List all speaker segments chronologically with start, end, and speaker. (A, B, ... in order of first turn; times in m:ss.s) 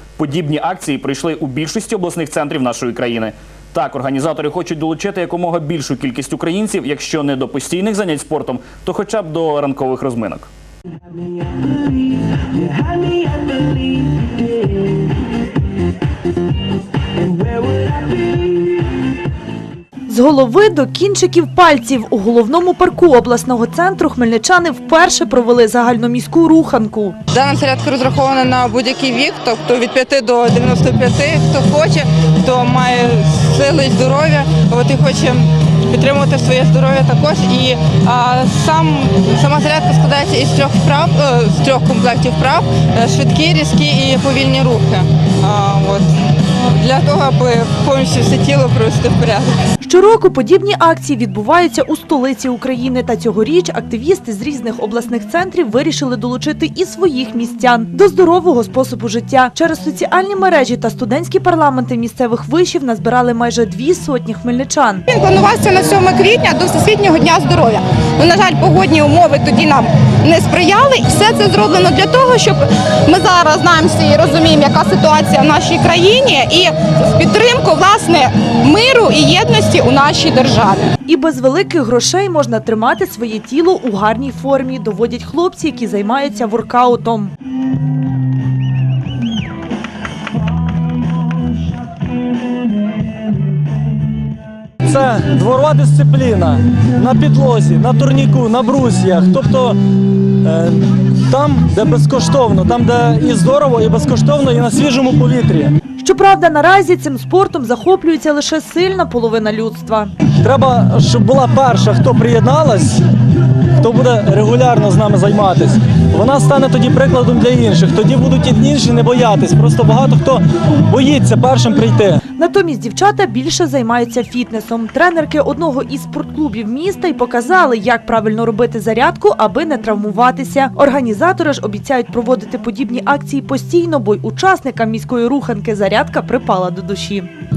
0:00.2-0:10.5 A
0:20.1-0:27.2 B
0:27.3-0:46.1 C
0:46.8-0:49.6 C
0:49.8-1:05.1 B
1:05.1-1:20.9 D
1:21.1-1:27.3 B
1:34.8-1:39.8 E
1:40.4-1:45.8 E
1:46.0-1:50.1 B
1:50.4-1:53.0 E
1:53.8-2:02.2 E
2:02.4-2:17.3 B